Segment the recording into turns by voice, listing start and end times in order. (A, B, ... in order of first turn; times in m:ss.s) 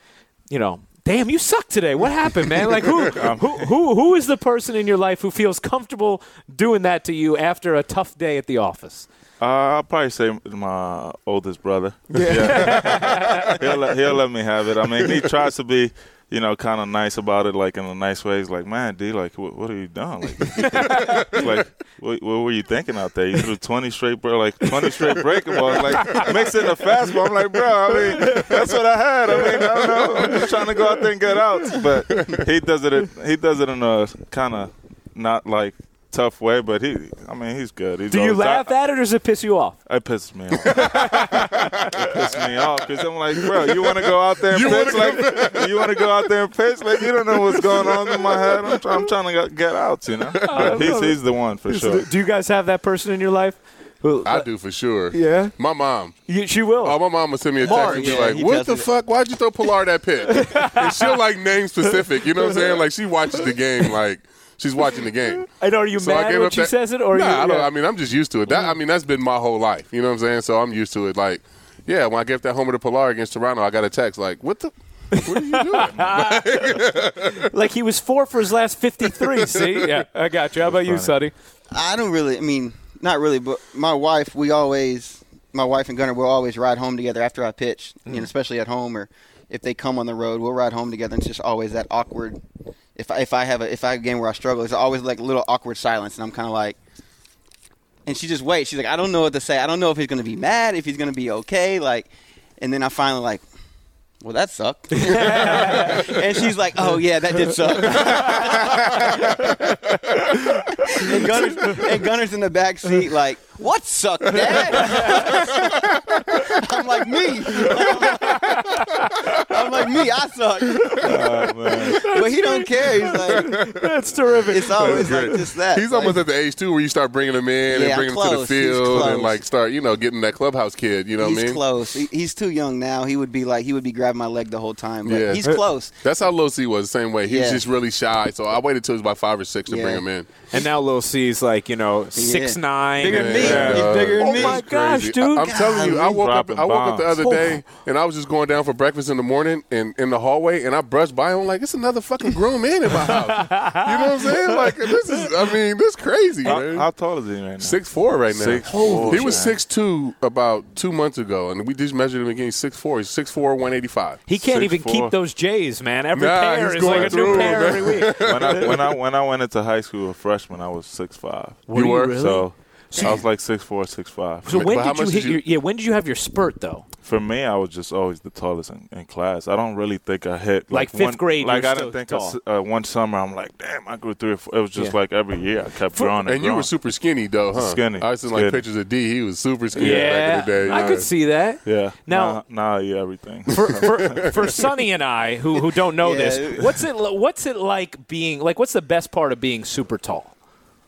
0:00.5-0:09.1 A
0:03.0-0:03.7 B
0:09.4-0:38.7 B
0:12.1-0:13.6 A
0:20.6-0:21.5 A
0:25.8-0:26.3 A
0:27.9-0:28.6 A
0:29.4-0:30.5 A
0:38.1-0:39.8 A
0:39.9-0:52.1 B
0:40.6-0:41.9 A
0:40.7-0:42.2 C
0:44.5-0:46.1 C
0:47.6-0:47.9 C
0:50.4-0:50.8 C
0:50.4-0:54.4 A
0:54.2-0:56.2 C
0:55.1-0:55.5 A
0:56.3-0:57.0 A
0:56.8-1:17.5 C
0:57.6-0:58.4 A
0:57.6-0:58.9 D
1:00.3-1:01.2 A
1:02.4-1:02.7 A
1:05.4-1:07.7 A
1:08.5-1:08.7 A
1:15.1-1:16.6 A
1:17.4-1:21.3 A
1:19.2-1:19.7 C
1:20.7-1:21.1 B
1:21.7-1:32.4 D
1:33.0-1:36.8 D
1:38.0-1:43.4 D
1:44.2-1:49.6 D
1:44.9-1:46.2 A
1:47.7-1:51.8 A
1:50.8-2:01.4 D
1:54.7-1:55.6 A
1:57.6-1:59.5 A
2:01.0-2:02.0 B
2:01.7-2:05.4 A
2:01.9-2:03.7 D
2:04.5-2:06.2 D
2:04.8-2:11.6 C
2:07.7-2:09.4 D
2:11.2-2:15.9 D
2:15.0-2:15.5 C
2:16.0-2:20.3 C
2:17.2-2:17.6 D
2:19.7-2:20.7 D
2:20.5-2:25.8 A
2:22.1-2:24.6 D
2:23.1-2:36.9 C
2:23.4-2:24.0 B
2:25.4-2:26.2 D
2:26.0-2:27.2 B
2:27.2-2:27.6 A
2:33.1-2:35.2 A
2:36.4-2:39.6 B
2:37.6-2:44.2 C
2:38.6-2:39.4 A
2:44.3-2:48.7 A
2:44.4-2:45.1 B
2:46.1-2:48.9 C
2:46.8-2:54.6 B
2:51.7-2:53.1 A
2:51.7-2:52.2 C
2:54.4-2:56.8 A
2:54.5-2:55.4 C
2:57.0-3:06.7 B
3:00.7-3:02.4 A
3:06.2-3:11.1 C
3:07.5-3:08.6 B
3:09.7-3:11.1 B
3:09.7-3:12.4 A
3:11.6-3:14.4 B
3:13.5-3:20.3 A
3:13.6-3:14.5 C
3:16.0-3:16.8 D